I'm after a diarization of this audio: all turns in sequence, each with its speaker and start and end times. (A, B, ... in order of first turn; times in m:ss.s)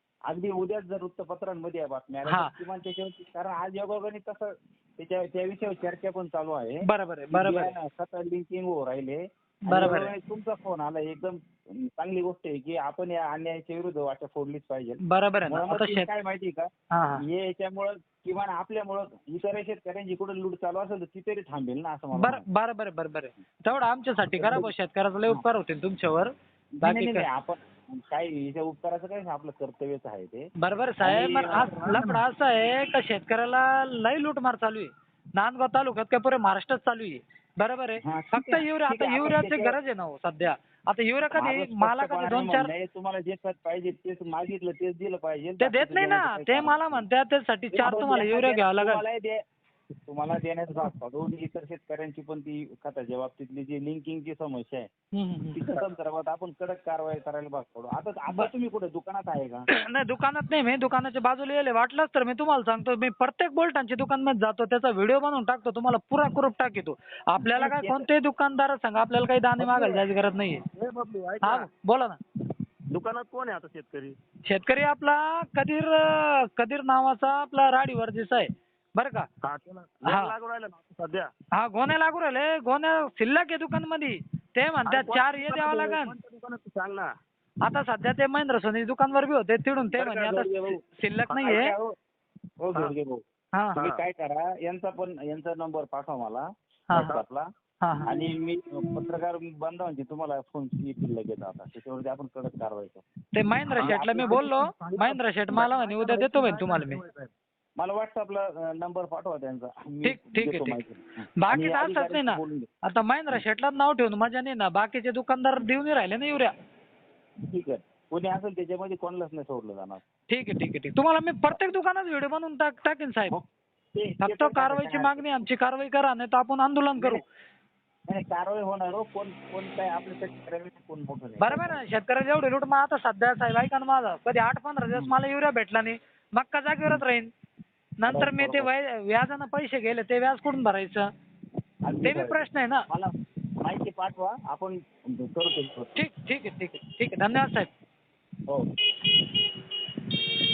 0:00.3-0:22.5 A
0:02.3-0:02.5 B
0:06.8-0:07.7 B
0:09.7-0:10.1 B
0:15.0-0:16.1 B
0:16.9-0:17.2 B
0:22.2-0:27.2 B
0:24.4-0:24.7 A
0:26.8-0:30.5 A
0:30.6-0:42.7 B
0:31.0-0:32.2 A
0:38.0-0:39.8 A
0:41.4-0:47.1 A
0:45.6-0:49.0 B
0:47.7-0:49.4 A
0:50.0-0:54.9 A
0:55.1-0:55.8 B
0:55.6-0:59.7 A
0:59.7-1:10.6 B
1:07.4-1:08.1 A
1:09.6-1:10.0 A
1:10.7-1:11.7 C
1:11.4-1:12.2 B
1:12.9-1:14.2 C
1:14.5-1:19.3 B
1:19.4-1:21.3 C
1:20.1-1:20.3 B
1:21.5-1:26.1 B
1:24.9-1:27.1 C
1:27.6-1:31.7 B
1:30.0-1:30.8 A
1:31.3-1:31.9 A
1:32.6-1:33.2 A
1:33.5-1:33.8 B
1:33.8-1:34.0 C
1:33.8-1:37.5 A
1:36.9-1:37.2 B
1:36.9-1:37.2 C
1:37.8-1:38.1 B
1:38.0-1:43.0 A
1:43.3-1:47.0 B
1:43.7-1:47.3 C
1:43.7-1:44.7 A
1:47.8-1:52.7 A
1:50.0-1:50.8 B
1:51.4-1:56.5 B
1:57.5-2:00.0 A
2:00.3-2:03.4 B
2:03.3-2:05.4 A
2:04.2-2:07.2 B
2:07.0-2:07.2 A
2:08.1-2:11.8 A
2:11.4-2:17.3 B
2:18.0-2:21.1 B
2:18.1-2:18.7 A
2:21.9-2:23.1 A
2:22.0-2:22.8 B
2:23.6-2:26.0 A
2:26.0-2:27.7 B
2:28.5-2:29.1 A